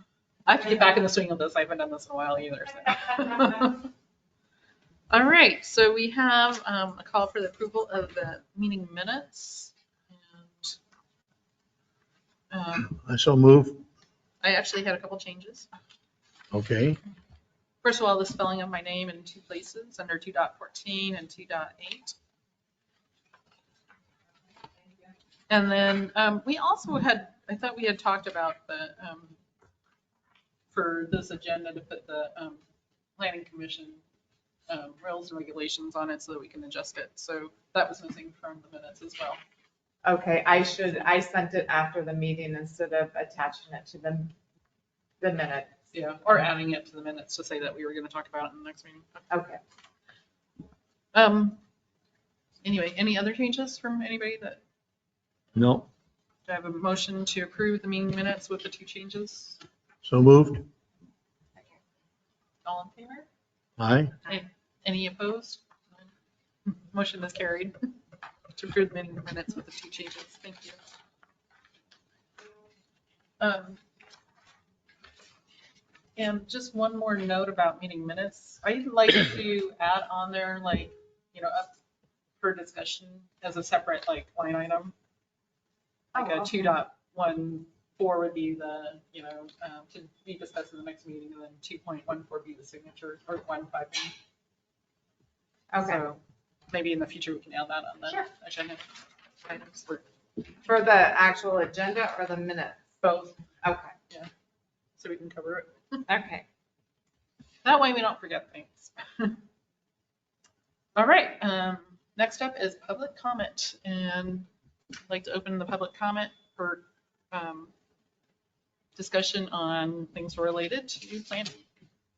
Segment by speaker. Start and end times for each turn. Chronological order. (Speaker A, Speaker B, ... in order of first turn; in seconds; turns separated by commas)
Speaker A: 0.5-3.9, Speaker A: 5.1-10.8, Speaker A: 12.5-13.0, Speaker B: 12.9-13.8, Speaker A: 14.4-15.7, Speaker B: 16.5-17.0, Speaker A: 17.8-22.1, Speaker A: 25.5-29.4, Speaker A: 30.7-32.6, Speaker A: 33.2-34.0, Speaker A: 34.7-39.4, Speaker C: 40.0-44.3, Speaker C: 45.2-45.8, Speaker A: 45.9-49.2, Speaker C: 49.3-49.6, Speaker A: 51.1-51.6, Speaker A: 52.6-54.6, Speaker B: 55.5-55.9, Speaker A: 56.5-59.6, Speaker B: 60.0-60.6, Speaker A: 62.6-63.3, Speaker B: 63.8-64.1, Speaker A: 64.3-66.1, Speaker A: 66.7-67.7, Speaker A: 68.5-70.8, Speaker A: 73.4-73.8, Speaker A: 76.2-81.7, Speaker A: 82.4-84.9, Speaker A: 86.1-94.1, Speaker C: 86.1-86.8, Speaker C: 95.7-96.1, Speaker A: 95.8-96.2, Speaker A: 96.7-98.8, Speaker A: 99.4-100.0, Speaker C: 100.6-102.9, Speaker A: 103.0-103.4, Speaker C: 103.6-103.9, Speaker A: 105.0-106.0, Speaker C: 106.1-106.4, Speaker A: 107.6-109.4, Speaker A: 111.0-114.5, Speaker A: 115.1-117.7, Speaker A: 119.0-121.6